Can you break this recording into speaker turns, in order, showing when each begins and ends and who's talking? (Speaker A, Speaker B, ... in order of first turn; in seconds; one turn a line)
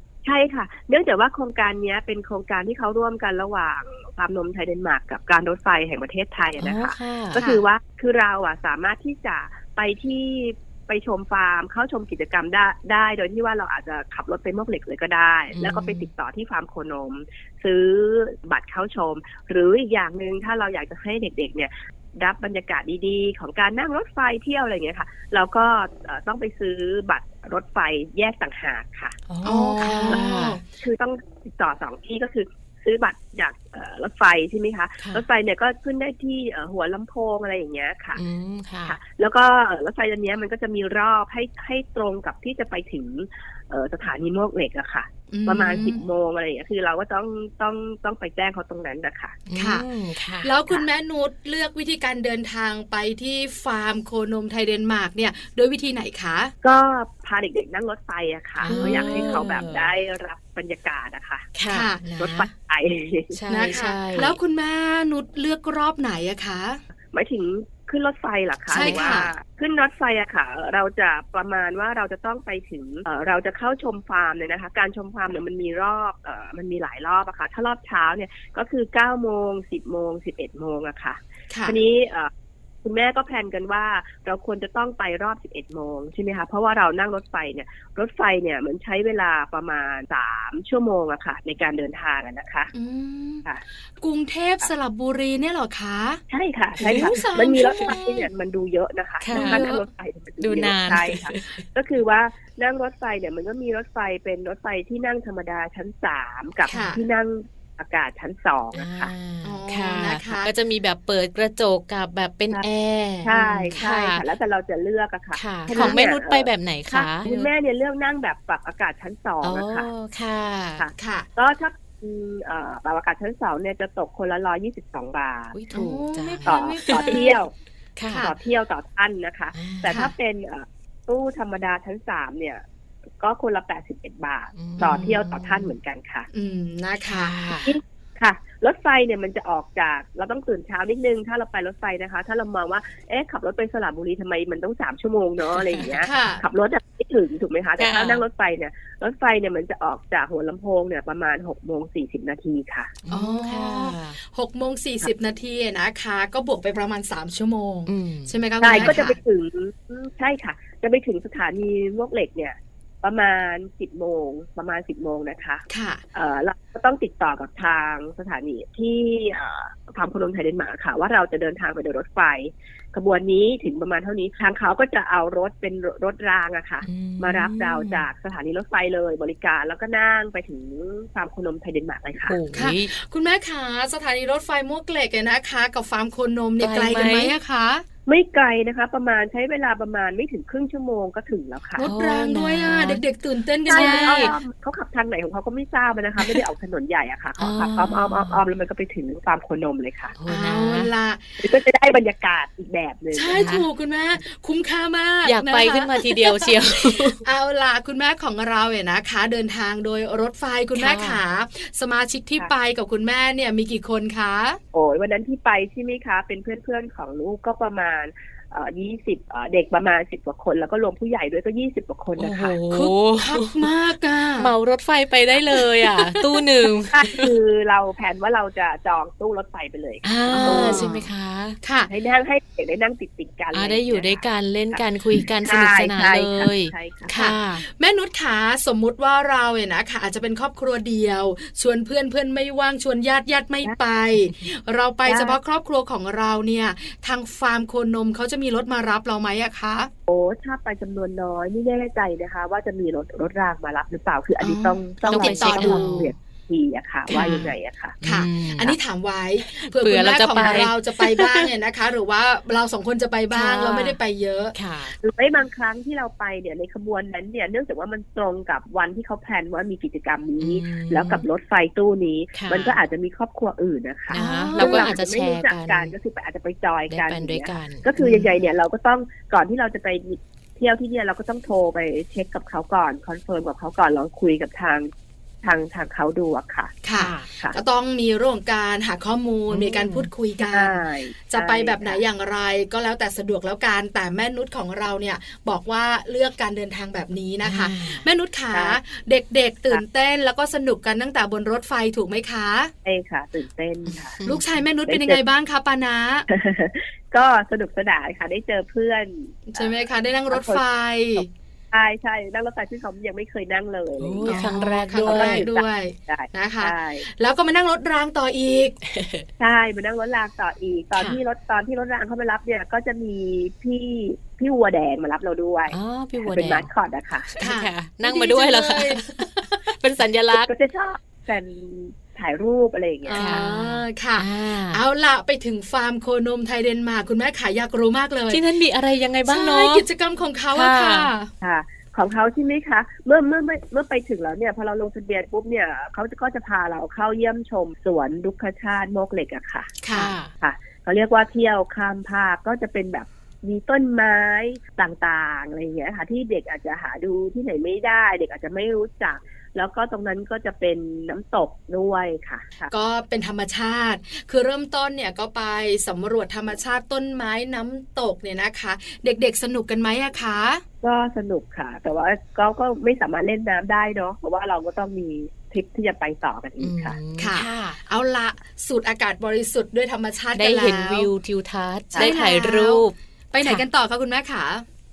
Speaker A: 0.2-29.2
Speaker B: 6.6-7.4
Speaker C: 7.4-7.6
Speaker B: 15.5-16.1
Speaker B: 29.3-30.6
Speaker C: 29.4-30.6
Speaker A: 30.1-38.2
Speaker B: 35.0-35.2
Speaker B: 38.1-39.0
Speaker A: 38.9-49.4
Speaker C: 45.3-46.0
Speaker B: 49.5-50.5
Speaker C: 49.5-49.9
Speaker C: 50.4-56.5
Speaker A: 56.6-61.5
Speaker C: 58.6-59.5
Speaker B: 58.6-59.9
Speaker B: 61.5-62.5
Speaker C: 61.7-62.0
Speaker A: 62.2-63.4
Speaker B: 63.3-64.4
Speaker C: 63.5-66.8
Speaker A: 67.1-82.3
Speaker B: 68.7-69.2
Speaker C: 68.7-69.3
Speaker C: 81.5-81.8
Speaker A: 82.8-92.7
Speaker C: 92.7-93.5
Speaker C: 94.0-96.2
Speaker A: 96.3-109.1
Speaker B: 96.8-98.0
Speaker C: 96.8-98.3
Speaker B: 99.2-99.7
Speaker C: 99.3-99.8
Speaker B: 100.4-101.6
Speaker C: 106.7-107.0
Speaker B: 108.7-114.2
Speaker C: 109.4-110.5
Speaker A: 113.2-119.9
Speaker B: 115.3-117.5
Speaker C: 115.7-116.0
Speaker B: 119.4-120.8
Speaker A: 120.8-125.5
Speaker C: 121.0-121.3
Speaker B: 125.5-127.2
Speaker C: 125.7-127.4
Speaker A: 126.4-127.5
Speaker B: 128.0-128.3
Speaker C: 128.1-128.3
Speaker A: 128.2-132.6
Speaker B: 129.5-130.0
Speaker A: 133.2-136.3
Speaker B: 134.6-135.7
Speaker C: 136.3-137.4
Speaker B: 137.1-137.8
Speaker A: 137.6-152.9
Speaker B: 145.5-146.1
Speaker C: 146.0-146.4
Speaker B: 147.8-148.2
Speaker B: 153.0-154.2
Speaker C: 153.1-159.2
Speaker B: 157.9-159.0
Speaker A: 158.6-182.4
Speaker C: 165.7-166.0
Speaker B: 176.8-178.0
Speaker B: 182.2-182.9
Speaker C: 182.5-187.8
Speaker B: 186.6-187.3
Speaker A: 188.1-191.9
Speaker C: 191.8-194.3
Speaker B: 191.8-193.0
Speaker A: 193.7-200.1
Speaker B: 193.7-194.3
Speaker B: 197.4-198.4
Speaker B: 200.2-200.9
Speaker C: 200.3-201.4
Speaker A: 201.4-203.6
Speaker C: 203.1-214.6
Speaker B: 203.3-203.7
Speaker B: 205.2-207.2
Speaker B: 210.7-211.2
Speaker A: 214.7-222.6
Speaker B: 222.2-223.7
Speaker C: 222.7-224.5
Speaker B: 224.4-227.2
Speaker C: 225.6-226.4
Speaker A: 226.9-231.0
Speaker B: 230.0-231.6
Speaker C: 230.3-231.0
Speaker C: 231.6-231.9
Speaker A: 231.9-234.8
Speaker B: 233.5-237.6
Speaker A: 235.4-237.1
Speaker C: 237.1-249.9
Speaker A: 245.1-245.4
Speaker A: 250.1-258.0
Speaker C: 254.4-256.0
Speaker B: 255.0-256.1
Speaker B: 257.1-258.8
Speaker C: 257.1-257.4
Speaker C: 258.0-264.5
Speaker B: 259.4-261.5
Speaker A: 260.4-260.6
Speaker B: 263.3-264.0
Speaker B: 264.5-265.0
Speaker A: 265.0-284.9
Speaker B: 270.4-271.2
Speaker B: 272.3-272.8
Speaker B: 274.1-275.9
Speaker C: 274.1-274.9
Speaker B: 276.9-277.9
Speaker C: 278.0-278.3
Speaker A: 285.4-286.8
Speaker C: 286.8-302.7
Speaker B: 286.9-287.3
Speaker A: 287.3-287.6
Speaker B: 289.5-290.1
Speaker A: 290.4-292.0
Speaker B: 297.4-298.1
Speaker A: 298.5-298.8
Speaker A: 302.8-304.2
Speaker B: 303.9-304.4
Speaker C: 304.2-306.3
Speaker A: 304.9-305.2
Speaker A: 306.3-310.6
Speaker C: 309.5-311.3
Speaker A: 311.1-317.1
Speaker B: 314.0-315.5
Speaker C: 314.2-318.8
Speaker B: 318.8-319.3
Speaker A: 319.4-327.3
Speaker B: 320.9-321.2
Speaker B: 325.7-326.7
Speaker B: 327.3-330.5
Speaker C: 327.4-329.6
Speaker A: 330.3-333.3
Speaker C: 333.0-338.4
Speaker B: 333.1-334.8
Speaker B: 338.3-339.9
Speaker C: 339.3-341.3
Speaker B: 340.5-341.1
Speaker A: 341.4-349.8
Speaker C: 349.8-350.1
Speaker B: 349.9-350.3
Speaker A: 350.4-362.7
Speaker C: 362.7-370.6
Speaker A: 370.8-377.0
Speaker B: 376.6-377.8
Speaker C: 377.2-381.1
Speaker B: 380.3-383.6
Speaker C: 381.9-384.6